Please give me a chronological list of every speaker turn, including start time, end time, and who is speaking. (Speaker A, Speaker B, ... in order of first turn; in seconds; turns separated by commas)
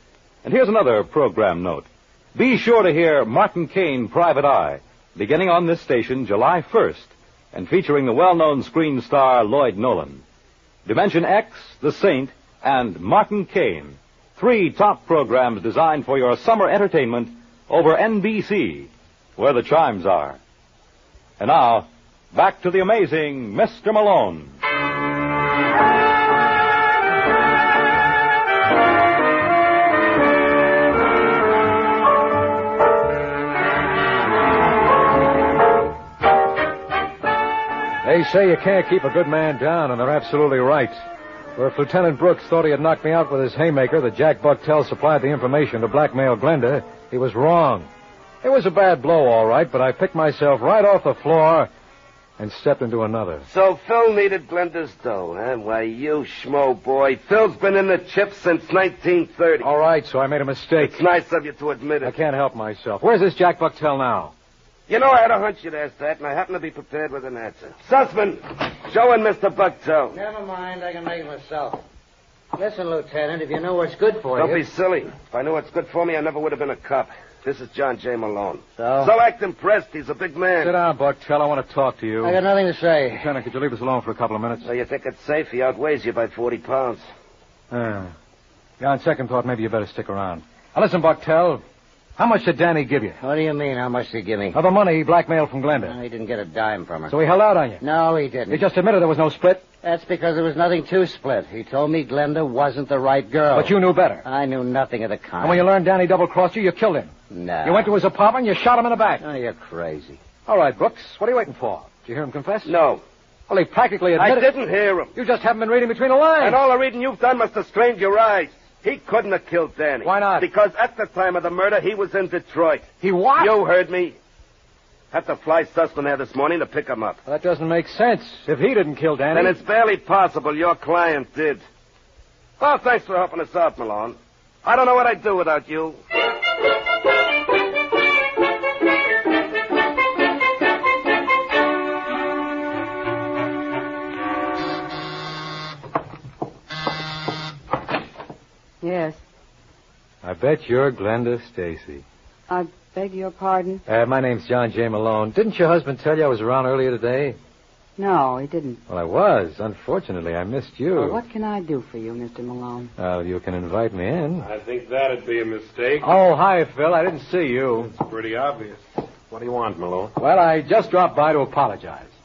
Speaker A: 0.4-10.2, Speaker A: 10.8-20.4, Speaker A: 21.4-24.5, Speaker B: 38.0-41.0, Speaker B: 41.6-47.9, Speaker B: 48.4-51.7, Speaker B: 52.4-53.5, Speaker C: 53.5-59.7, Speaker B: 59.6-61.0, Speaker C: 60.8-62.1, Speaker B: 62.0-64.3, Speaker C: 64.9-70.2, Speaker D: 70.1-71.8, Speaker D: 72.5-74.6, Speaker C: 74.3-80.7, Speaker D: 78.8-79.1, Speaker B: 80.6-82.4, Speaker D: 82.2-83.3, Speaker B: 83.1-84.7, Speaker C: 84.6-87.0, Speaker B: 87.7-88.1, Speaker B: 88.8-91.6, Speaker B: 92.2-93.2, Speaker D: 93.2-94.6, Speaker B: 94.5-96.0, Speaker D: 95.8-97.1, Speaker B: 97.1-97.8, Speaker D: 97.8-98.7, Speaker B: 98.5-99.6, Speaker D: 99.8-105.7, Speaker B: 103.5-104.2, Speaker B: 105.4-107.1, Speaker D: 107.3-107.9, Speaker B: 107.6-109.2, Speaker D: 109.2-110.2, Speaker B: 110.5-112.7, Speaker C: 112.7-113.0, Speaker B: 113.5-114.5, Speaker C: 114.2-115.1, Speaker B: 115.1-116.6, Speaker C: 116.4-124.2, Speaker B: 120.0-120.5, Speaker B: 123.0-123.5, Speaker C: 125.1-127.2, Speaker B: 127.2-129.6, Speaker C: 129.3-131.6, Speaker C: 132.6-136.0, Speaker E: 148.8-149.2, Speaker B: 150.2-152.0, Speaker E: 152.5-153.8, Speaker B: 153.9-157.4, Speaker E: 158.0-158.8, Speaker B: 158.9-161.2, Speaker E: 160.9-162.9, Speaker B: 163.0-164.5, Speaker F: 164.4-166.1, Speaker B: 166.0-167.9, Speaker F: 167.8-170.2, Speaker B: 170.2-172.1